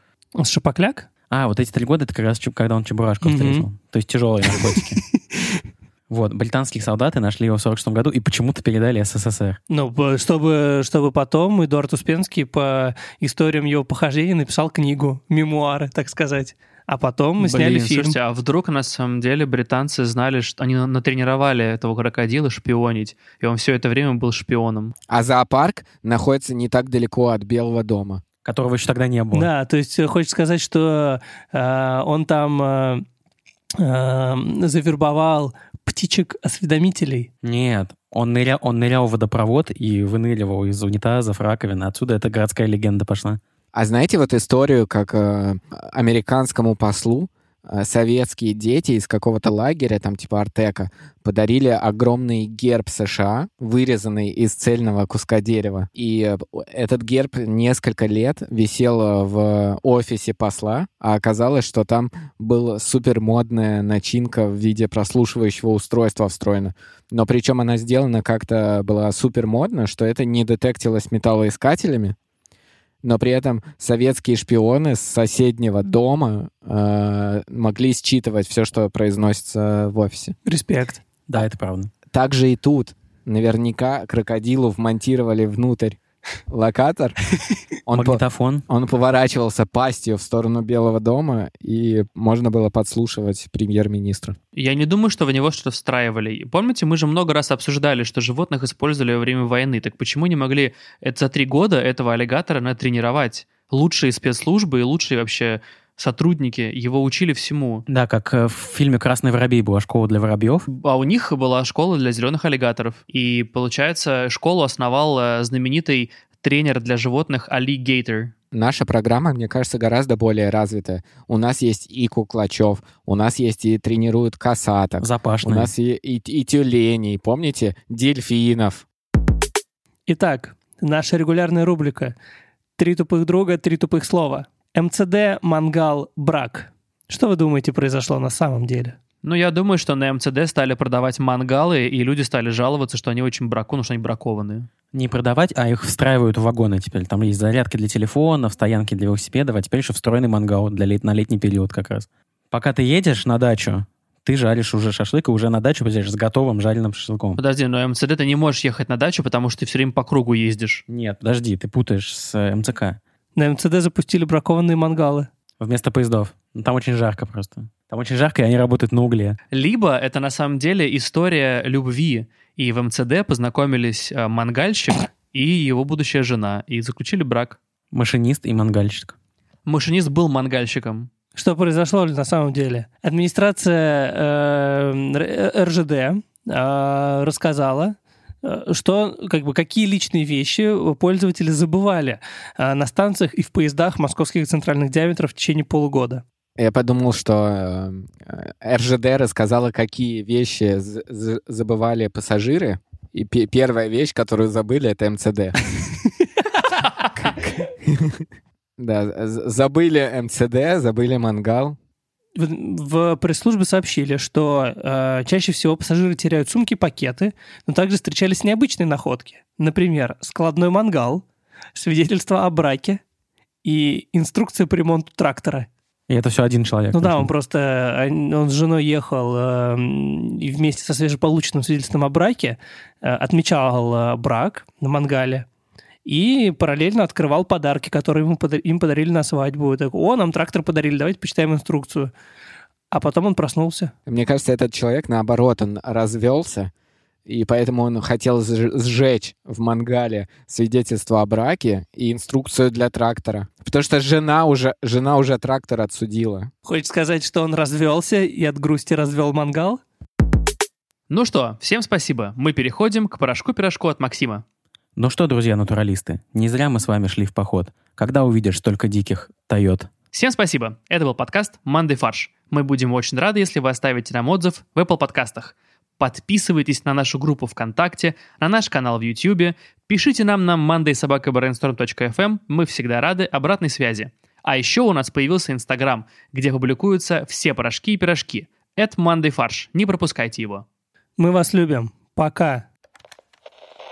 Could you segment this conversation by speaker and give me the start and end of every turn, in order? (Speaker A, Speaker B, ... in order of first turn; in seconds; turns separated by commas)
Speaker A: 0.4-1.1, Speaker B: 1.3-5.0, Speaker A: 3.2-3.7, Speaker A: 4.5-5.6, Speaker B: 6.1-9.6, Speaker A: 9.7-18.2, Speaker C: 17.4-24.9, Speaker D: 25.1-28.2, Speaker B: 28.4-29.5, Speaker A: 29.3-33.0, Speaker A: 33.8-37.3, Speaker B: 37.4-43.4, Speaker D: 43.7-72.2, Speaker D: 73.0-80.3, Speaker A: 80.5-81.0, Speaker B: 81.3-81.9, Speaker D: 82.1-86.0, Speaker D: 86.5-87.2, Speaker D: 87.8-94.4, Speaker B: 87.9-88.7, Speaker C: 94.6-107.8, Speaker B: 107.9-110.7, Speaker C: 110.7-118.3, Speaker D: 118.5-128.8, Speaker B: 125.0-125.7, Speaker A: 130.1-132.2, Speaker A: 132.8-139.0, Speaker C: 139.2-144.7, Speaker B: 144.9-157.4, Speaker C: 157.4-160.8, Speaker B: 160.9-163.0, Speaker A: 163.4-165.3, Speaker B: 165.6-169.4, Speaker C: 169.5-177.6, Speaker B: 177.9-179.2, Speaker C: 179.7-181.1, Speaker A: 181.4-196.2, Speaker D: 196.6-205.6, Speaker D: 207.2-208.2, Speaker D: 208.8-211.8, Speaker A: 212.4-221.2, Speaker A: 221.8-223.0, Speaker A: 223.6-225.7, Speaker B: 226.1-227.3, Speaker A: 226.9-235.5, Speaker A: 236.1-242.1, Speaker A: 242.9-243.9, Speaker D: 244.1-246.7, Speaker D: 247.3-256.5, Speaker A: 256.6-259.8, Speaker C: 261.1-264.4, Speaker B: 265.0-269.9, Speaker C: 270.1-290.6, Speaker A: 291.2-292.7